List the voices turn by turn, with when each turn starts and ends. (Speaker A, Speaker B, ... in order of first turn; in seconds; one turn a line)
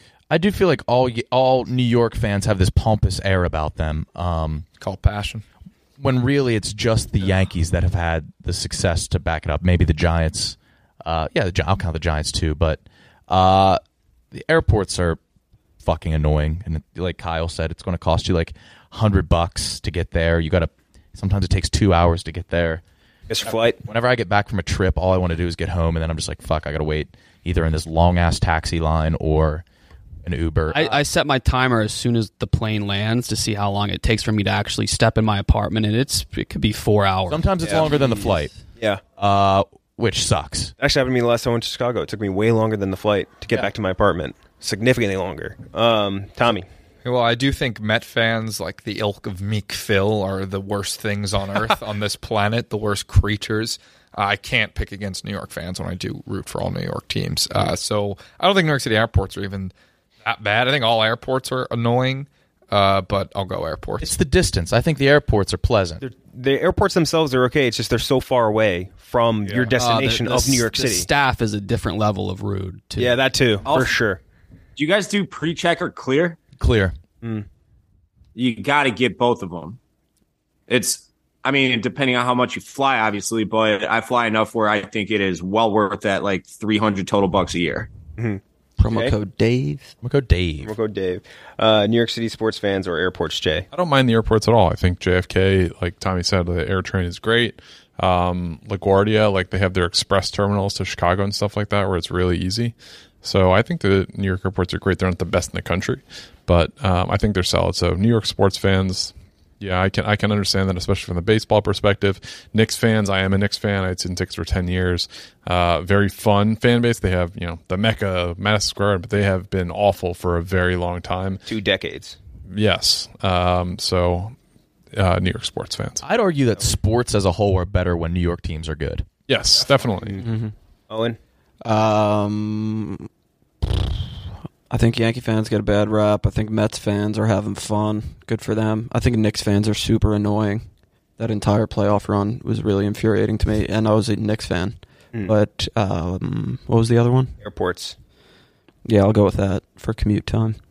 Speaker A: 0.3-4.7
Speaker B: 4.8-5.4
Speaker A: 6.0-13.8
Speaker A: 14.3-15.2
Speaker A: 15.8-22.8
Speaker C: 23.3-23.8
Speaker A: 23.8-29.6
Speaker A: 30.2-31.0
Speaker D: 30.7-37.4
Speaker A: 37.3-38.6
Speaker C: 37.6-39.0
Speaker A: 39.2-40.7
Speaker C: 40.8-46.7
Speaker B: 47.0-59.7
Speaker B: 60.2-64.2
Speaker A: 64.0-66.0
Speaker C: 66.0-71.1
Speaker D: 69.7-73.9
Speaker C: 73.0-74.2
Speaker E: 74.8-76.4
Speaker A: 76.6-77.0
Speaker E: 78.3-79.8
Speaker E: 80.7-87.9
Speaker C: 88.2-89.2
Speaker F: 88.8-90.0
Speaker A: 90.0-90.8
Speaker C: 90.6-93.7
Speaker G: 93.7-121.5
Speaker C: 121.5-122.2
Speaker G: 122.5-124.4
Speaker G: 124.9-126.0
Speaker A: 126.0-129.1
Speaker G: 129.3-130.2
Speaker F: 130.2-130.5
Speaker C: 130.9-131.2
Speaker F: 131.7-133.1
Speaker F: 133.6-134.0
Speaker F: 134.7-140.7
Speaker F: 141.2-147.3
Speaker C: 147.4-147.9
Speaker F: 148.8-150.6